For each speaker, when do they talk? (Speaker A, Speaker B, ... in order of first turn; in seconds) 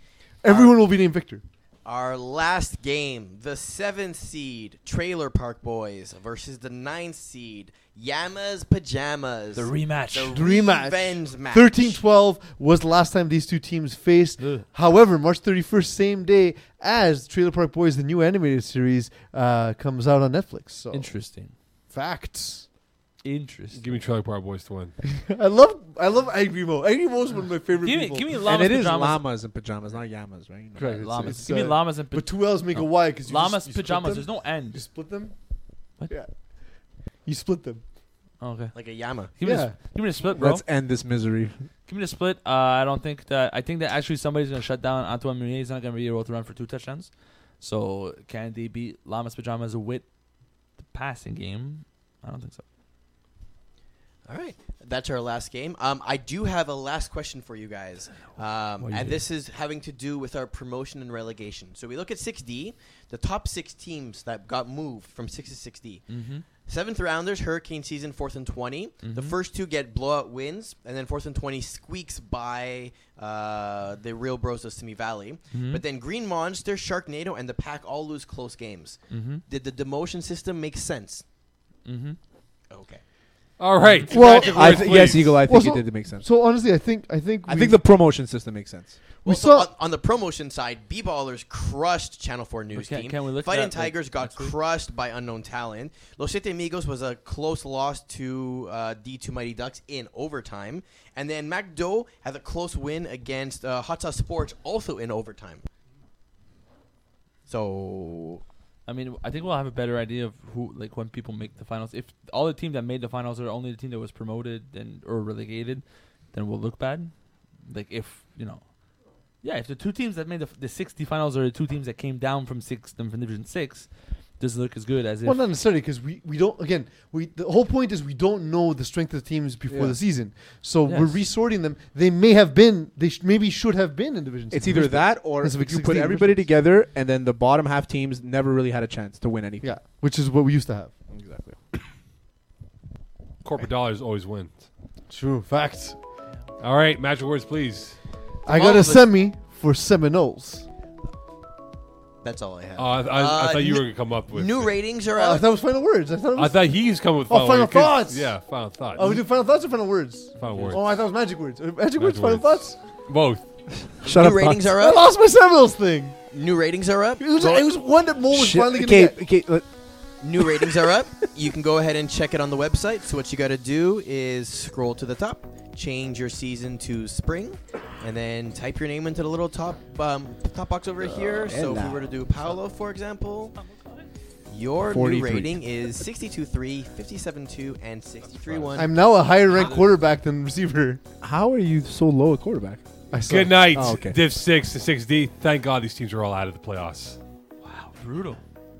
Speaker A: 0.4-1.4, 10.3-21.1, 21.9-22.7, 25.1-28.3, 30.8-35.3, 37.2-37.8, 39.4-39.8, 84.1-87.8, 89.2-89.7, 125.2-136.5, 139.6-140.9, 145.1-146.0, 148.4-150.7, 155.1-156.7, 157.3-158.4, 158.9-162.8, 164.8-166.2, 167.2-169.2, 188.7-191.0, 193.1-194.0
Speaker B: 0.5-0.8, 1.8-12.0, 38.7-39.3, 54.3-81.2, 82.7-83.0, 84.1-84.8, 89.2-105.6, 107.5-108.4, 148.5-149.1, 152.2-155.4, 164.0-165.0, 166.3-167.6, 170.2-183.6, 184.5-188.9
Speaker C: 9.5-10.4, 14.4-14.6, 20.9-21.5, 23.2-23.8, 27.8-29.2, 30.8-34.8, 38.4-40.6, 41.9-50.0, 50.8-52.6, 66.1-66.4, 69.0-69.4, 75.5-75.8, 79.1-79.4, 81.8-82.2, 92.7-94.5, 108.8-118.6, 119.4-125.4, 130.8-131.2, 183.5-184.1, 189.5-189.9, 197.6-198.4
Speaker D: 23.7-24.9, 83.6-85.4, 143.4-144.6, 146.6-148.0, 152.8-154.7, 156.3-159.2, 160.4-160.8, 162.0-163.6, 193.3-197.2
Speaker E: 28.4-31.4, 40.3-41.6, 58.8-59.2, 84.4-86.3, 87.5-89.1, 129.7-130.0, 134.5-139.7, 141.1-141.6, 164.0-164.8, 168.3-169.7, 170.4-171.3, 181.1-182.1, 184.8-185.6, 191.2-192.8, 193.7-194.2